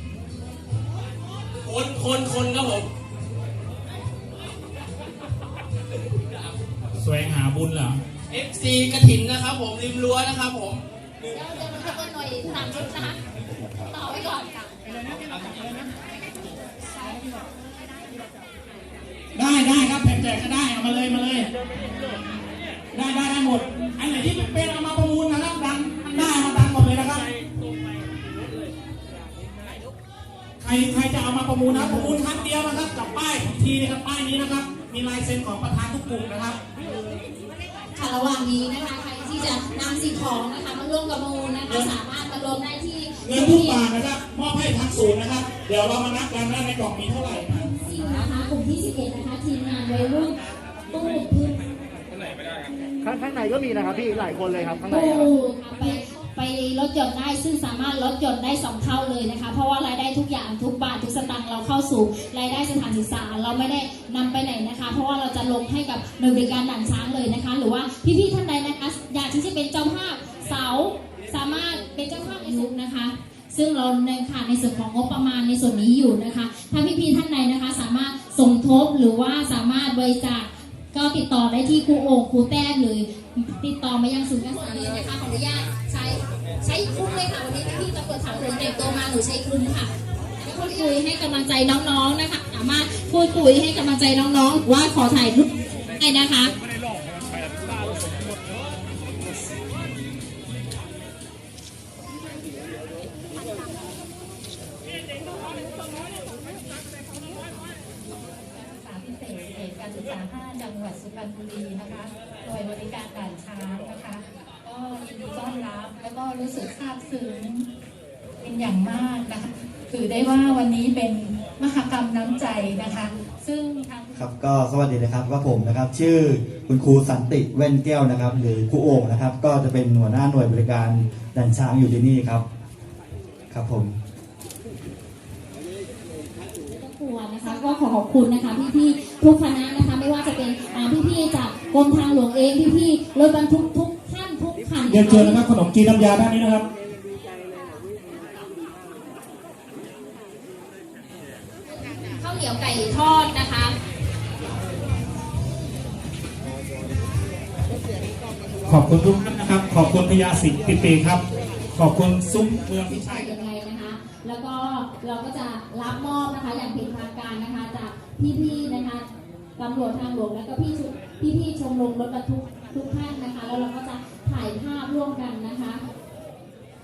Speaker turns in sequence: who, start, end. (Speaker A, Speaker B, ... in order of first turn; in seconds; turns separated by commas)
Speaker A: 1.6-2.9, Speaker B: 7.0-8.0, Speaker A: 8.3-10.8, Speaker C: 11.3-13.2, Speaker C: 13.9-14.6, Speaker B: 19.4-21.5, Speaker B: 22.9-27.3, Speaker B: 30.6-36.6, Speaker C: 37.9-43.8, Speaker B: 43.2-47.7, Speaker C: 47.6-50.4, Speaker C: 50.9-51.6, Speaker D: 53.0-55.3, Speaker C: 54.9-96.5, Speaker E: 108.5-117.7, Speaker E: 118.4-124.2, Speaker F: 124.2-132.4, Speaker F: 133.5-133.9, Speaker C: 136.7-145.4, Speaker B: 144.9-146.7, Speaker C: 152.2-153.8, Speaker B: 158.7-161.2, Speaker B: 161.8-163.3, Speaker C: 162.9-175.8